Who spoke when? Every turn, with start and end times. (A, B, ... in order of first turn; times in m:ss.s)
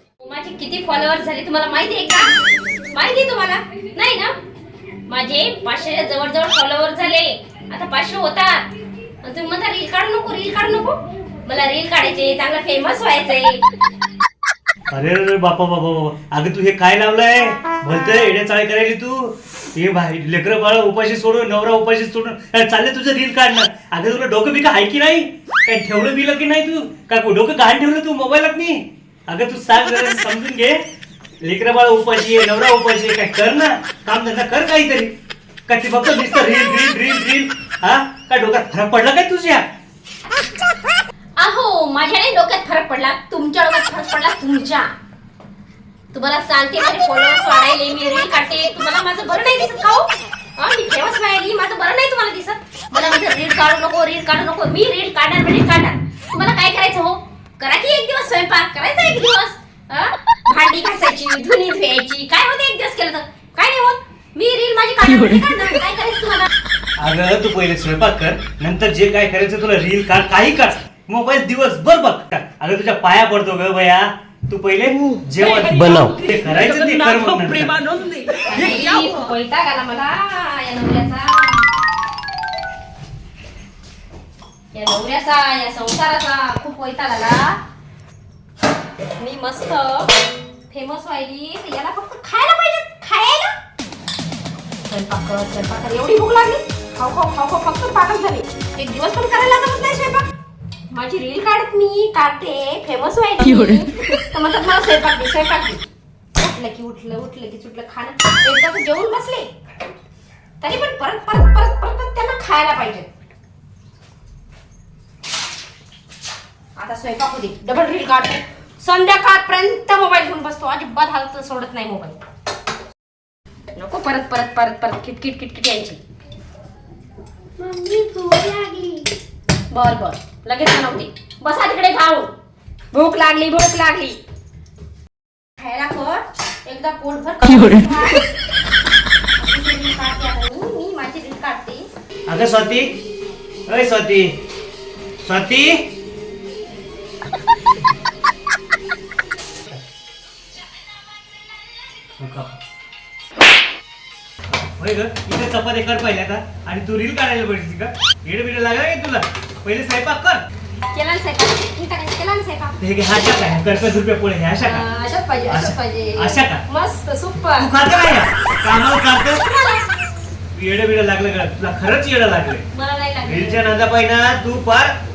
0:00.2-0:02.3 A
0:02.9-0:04.3 A
0:05.1-0:08.7 A
0:09.2-0:13.6 A
0:14.9-0:30.8 B
0:31.4-0:35.1 B
0:35.7-0:39.7 B
0:41.4-0:44.9 A
0:46.1-1:06.5 A
1:07.0-1:17.8 B
1:15.6-1:19.1 C
1:18.5-1:21.7 A
1:24.7-1:27.6 A
1:29.2-1:30.1 A
1:30.7-1:33.6 A
1:34.9-1:40.3 A
1:40.9-1:45.8 A
1:46.4-1:49.5 A
1:50.6-1:53.1 A
1:56.8-2:02.2 A
2:03.8-2:06.0 A
2:07.6-2:09.1 A
2:09.7-2:12.3 A
2:12.9-2:14.2 A
2:15.6-2:18.3 A
2:19.4-2:21.9 A
2:22.3-2:23.0 B
2:23.7-2:24.4 B
2:25.2-2:25.8 B
2:32.2-2:32.6 B
2:34.6-2:40.4 B
2:40.9-2:42.8 A
2:42.8-2:44.9 B
2:44.6-2:47.7 A
2:45.5-2:46.6 B
2:47.6-2:49.4 B
2:49.4-2:50.0 A
2:50.5-2:52.7 B
2:52.7-2:53.7 A
2:53.2-2:55.0 B